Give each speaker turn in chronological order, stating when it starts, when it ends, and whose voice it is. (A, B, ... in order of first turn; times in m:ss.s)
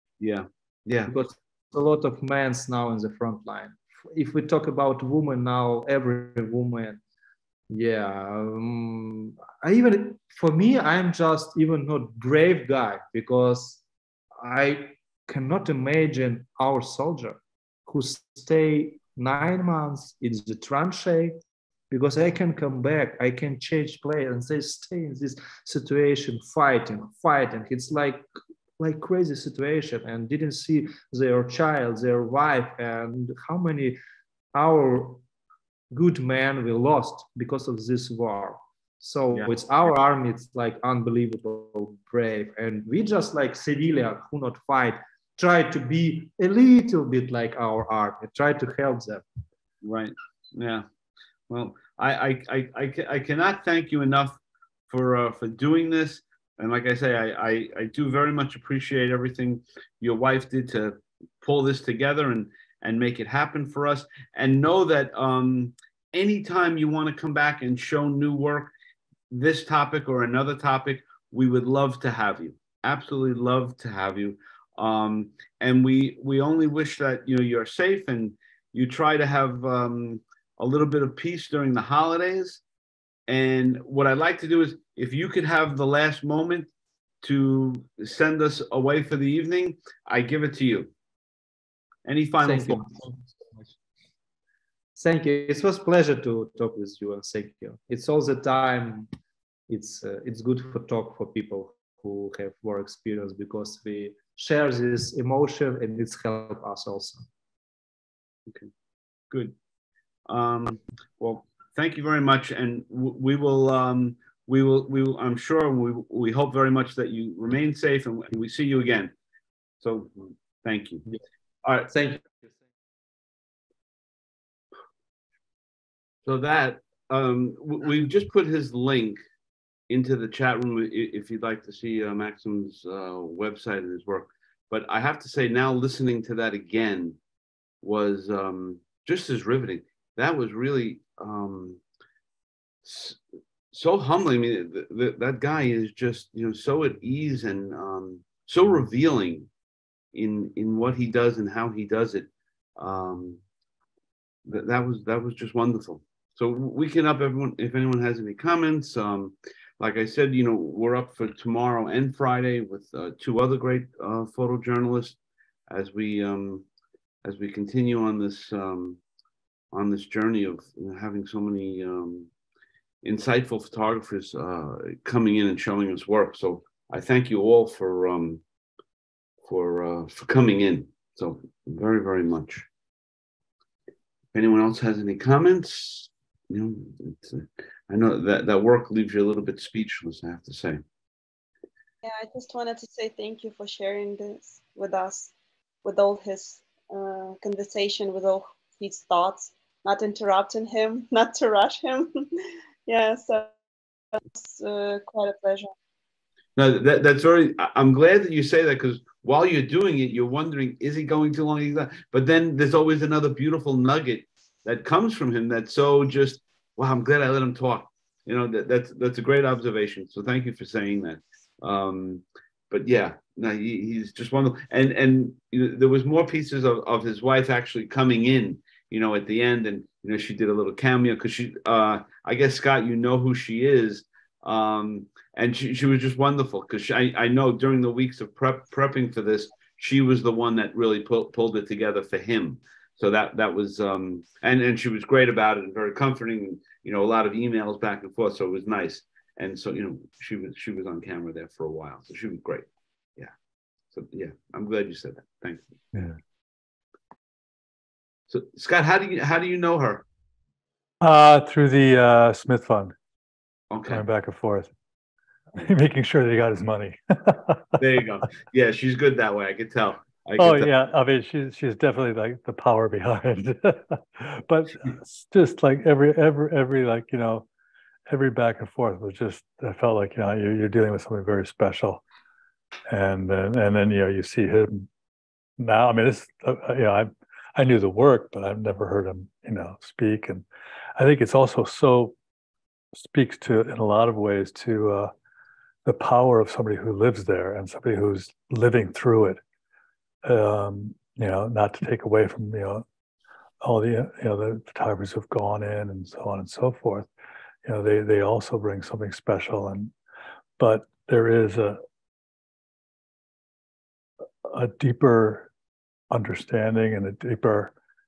0:00.2-0:01.1 A
0:01.1-0:07.0 B
0:07.7-0:13.8 B
0:14.4-0:21.4 B
0:21.9-0:28.2 B
0:28.8-0:34.0 B
0:34.5-0:35.2 B
0:35.9-0:49.2 B
0:49.8-0:50.8 A
0:51.5-1:08.7 A
1:09.3-1:22.6 A
1:23.3-1:26.7 A
1:27.2-1:30.9 A
1:32.0-1:32.9 A
1:32.4-1:33.2 B
1:35.0-1:39.1 B
1:39.7-1:47.2 B
1:50.3-1:59.1 A
1:59.8-2:01.0 A
2:01.6-2:01.9 A
2:01.9-2:02.4 B
2:06.2-2:09.2 A
2:09.9-2:17.2 A
2:17.8-2:21.8 A
2:22.8-2:23.2 A
2:23.7-2:29.5 A
2:30.1-2:33.4 A
2:34.4-2:45.2 A
2:45.7-2:46.7 A
2:47.2-2:49.0 A
2:49.7-2:52.3 A
2:53.0-2:58.4 A
2:59.4-3:02.7 A
3:04.3-3:10.8 A
3:12.0-3:15.3 C
3:15.8-3:23.5 C
3:24.2-3:25.7 C
3:26.6-4:13.3 A
4:13.9-4:15.7 A
4:18.3-4:20.0 A
4:21.0-4:22.9 D
4:23.7-4:24.0 A
4:23.9-4:24.7 D
4:25.6-4:27.6 D
4:27.8-4:30.7 A
4:30.4-4:37.5 D
4:38.1-4:42.0 D
4:42.9-4:44.9 D
4:45.6-4:50.4 D
4:51.0-4:52.2 D
4:52.9-4:55.1 D
4:55.8-4:59.4 D
5:00.2-5:02.8 D
5:03.6-5:07.1 D
5:07.6-5:09.9 D
5:10.6-5:11.8 D
5:14.4-5:15.5 D
5:16.1-5:17.7 D